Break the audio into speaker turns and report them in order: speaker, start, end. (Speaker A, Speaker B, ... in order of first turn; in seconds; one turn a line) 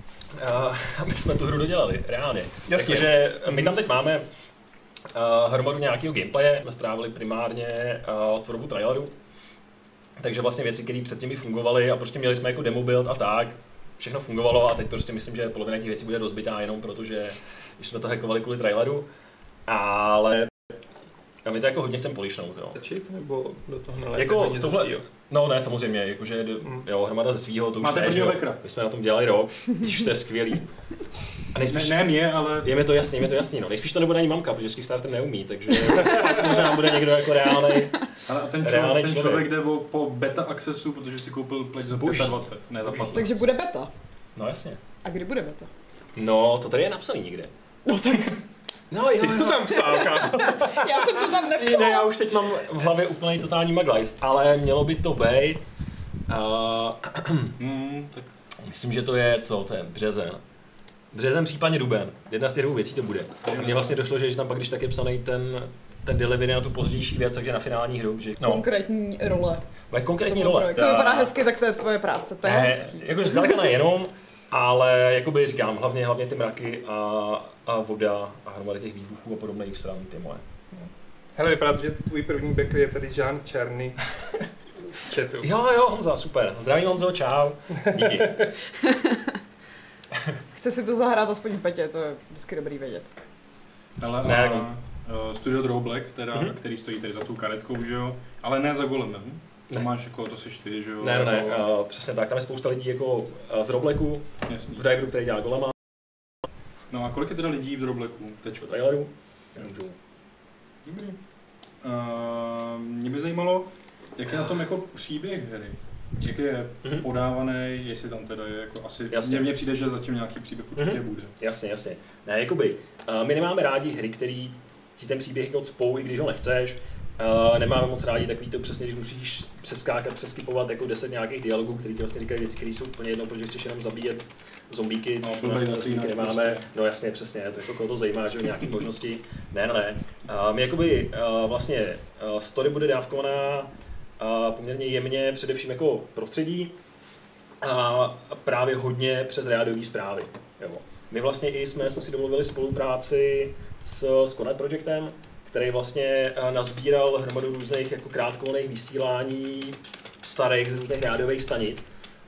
Speaker A: 0.3-4.2
Speaker B: 2.7-3.8
Speaker A: 5.1-9.1
Speaker A: 10.2-19.1
Speaker A: 19.7-20.7
Speaker A: 21.4-22.8
Speaker B: 22.8-25.1
Speaker A: 24.1-30.7
Speaker C: 27.8-28.6
Speaker A: 31.5-38.0
Speaker C: 31.7-32.9
Speaker D: 36.0-36.7
Speaker D: 37.5-37.9
Speaker C: 38.3-43.5
Speaker A: 38.6-39.5
Speaker A: 41.9-43.3
Speaker D: 43.1-43.9
Speaker A: 44.4-44.8
Speaker D: 45.0-45.7
Speaker A: 46.1-47.5
Speaker D: 47.9-48.4
Speaker A: 48.9-55.7
Speaker B: 49.2-50.5
Speaker D: 49.8-52.1
Speaker A: 56.3-57.6
Speaker C: 57.6-58.3
Speaker A: 58.6-60.4
Speaker A: 61.1-68.7
Speaker C: 63.5-64.0
Speaker D: 68.4-69.6
Speaker A: 69.9-71.3
Speaker D: 70.2-73.5
Speaker A: 72.4-80.4
Speaker B: 80.7-84.0
Speaker B: 84.8-85.5
Speaker A: 85.4-88.5
Speaker D: 88.6-89.4
Speaker D: 90.5-93.1
Speaker C: 94.0-101.7
Speaker A: 94.2-94.7
Speaker A: 96.3-96.6
Speaker A: 101.0-105.8
Speaker C: 104.5-104.8
Speaker C: 106.9-108.7
Speaker A: 108.6-110.0
Speaker C: 110.8-111.2
Speaker C: 111.8-121.3
Speaker A: 119.1-119.5
Speaker A: 120.8-146.7
Speaker C: 135.2-136.7
Speaker A: 147.6-161.8